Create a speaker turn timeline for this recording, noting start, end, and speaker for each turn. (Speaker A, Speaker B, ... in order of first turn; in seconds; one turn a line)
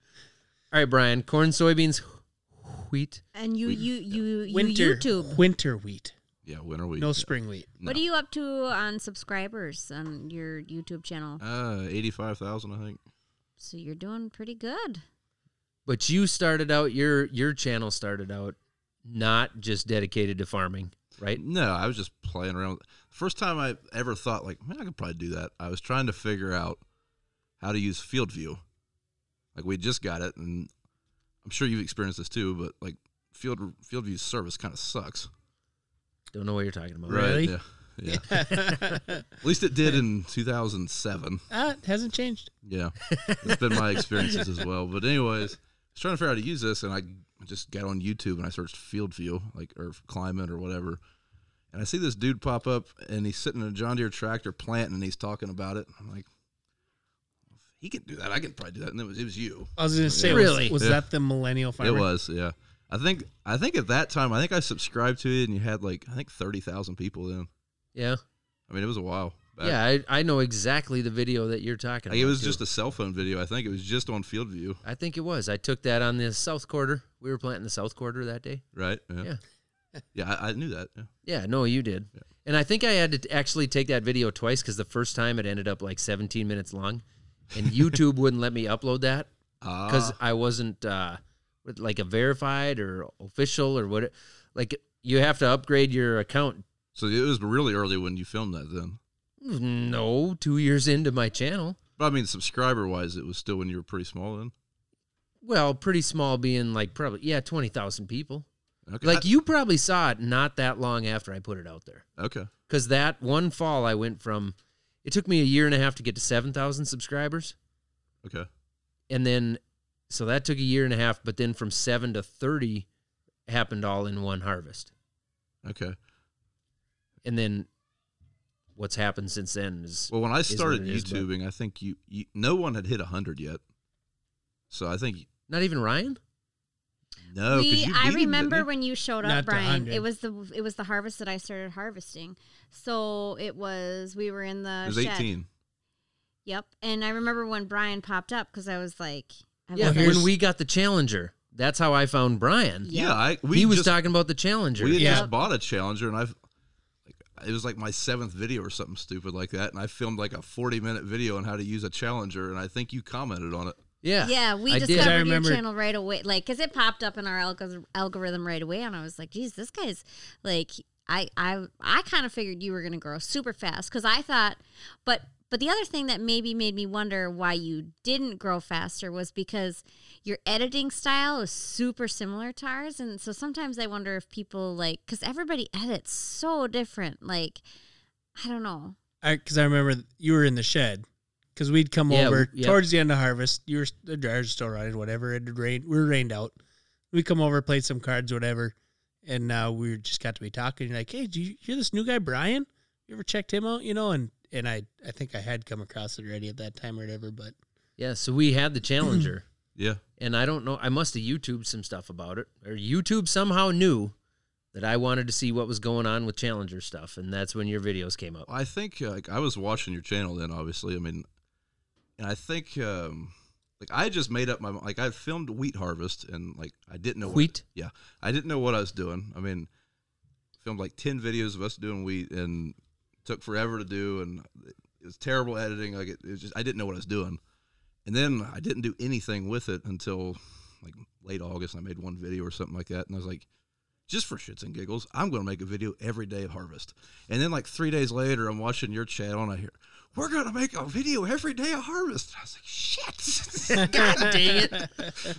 Speaker A: 0.7-3.2
Speaker B: 3.3-5.4
Speaker C: 3.6-4.2
Speaker D: 4.5-6.1
Speaker C: 6.4-8.0
Speaker D: 7.0-7.7
Speaker B: 7.8-11.4
Speaker C: 11.4-13.0
Speaker B: 13.6-15.0
Speaker A: 15.8-21.4
Speaker C: 21.4-26.8
Speaker C: 27.6-28.6
Speaker C: 29.5-30.7
Speaker C: 31.4-35.3
Speaker A: 36.3-37.5
Speaker C: 37.1-38.3
Speaker D: 37.1-37.5
Speaker D: 38.1-39.2
Speaker A: 38.6-39.0
Speaker C: 39.4-41.5
Speaker D: 41.5-42.5
Speaker C: 42.6-51.0
Speaker A: 43.0-44.4
Speaker C: 51.7-56.3
Speaker C: 57.7-61.0
Speaker D: 59.8-62.1
Speaker A: 60.2-60.8
Speaker C: 61.8-67.5
Speaker A: 67.9-68.2
Speaker C: 68.7-69.8
Speaker A: 69.6-72.6
Speaker C: 72.1-74.8
Speaker A: 74.8-78.6
Speaker C: 78.7-79.3
Speaker C: 80.1-81.1
Speaker A: 81.2-89.3
Speaker C: 89.6-90.2
Speaker A: 89.8-96.6
Speaker C: 96.9-99.0
Speaker A: 99.4-101.8
Speaker C: 102.0-104.5
Speaker A: 105.4-108.5
Speaker C: 108.8-109.2
Speaker A: 109.0-112.0
Speaker C: 112.2-112.5
Speaker A: 112.7-117.5
Speaker C: 118.2-118.5
Speaker A: 119.1-122.9
Speaker A: 123.5-124.9
Speaker C: 125.6-126.0
Speaker A: 127.2-127.7
Speaker A: 128.8-131.3
Speaker C: 130.1-133.6
Speaker C: 134.7-135.3
Speaker A: 135.5-136.2
Speaker C: 137.3-138.7
Speaker B: 137.5-145.3
Speaker D: 139.2-140.1
Speaker C: 144.8-145.5
Speaker B: 146.4-150.3
Speaker A: 149.7-152.9
Speaker D: 149.8-150.3
Speaker B: 152.8-153.2
Speaker C: 152.9-153.9
Speaker A: 153.5-155.1
Speaker C: 154.8-156.3
Speaker B: 155.0-155.3
Speaker D: 155.0-155.2
Speaker C: 157.1-163.8
Speaker A: 164.0-165.2
Speaker B: 164.2-187.6
Speaker D: 164.9-165.6
Speaker B: 188.3-189.0
Speaker D: 189.2-191.0
Speaker D: 191.6-196.6
Speaker A: 192.1-192.8
Speaker D: 197.1-207.5
Speaker A: 208.0-209.4
Speaker C: 209.8-210.0
Speaker A: 210.2-214.1
Speaker A: 214.7-218.5
Speaker C: 218.5-221.2
Speaker C: 222.2-229.7
Speaker A: 227.2-227.6
Speaker C: 230.6-237.4
Speaker C: 238.0-243.4
Speaker C: 244.1-254.3
Speaker A: 253.7-254.9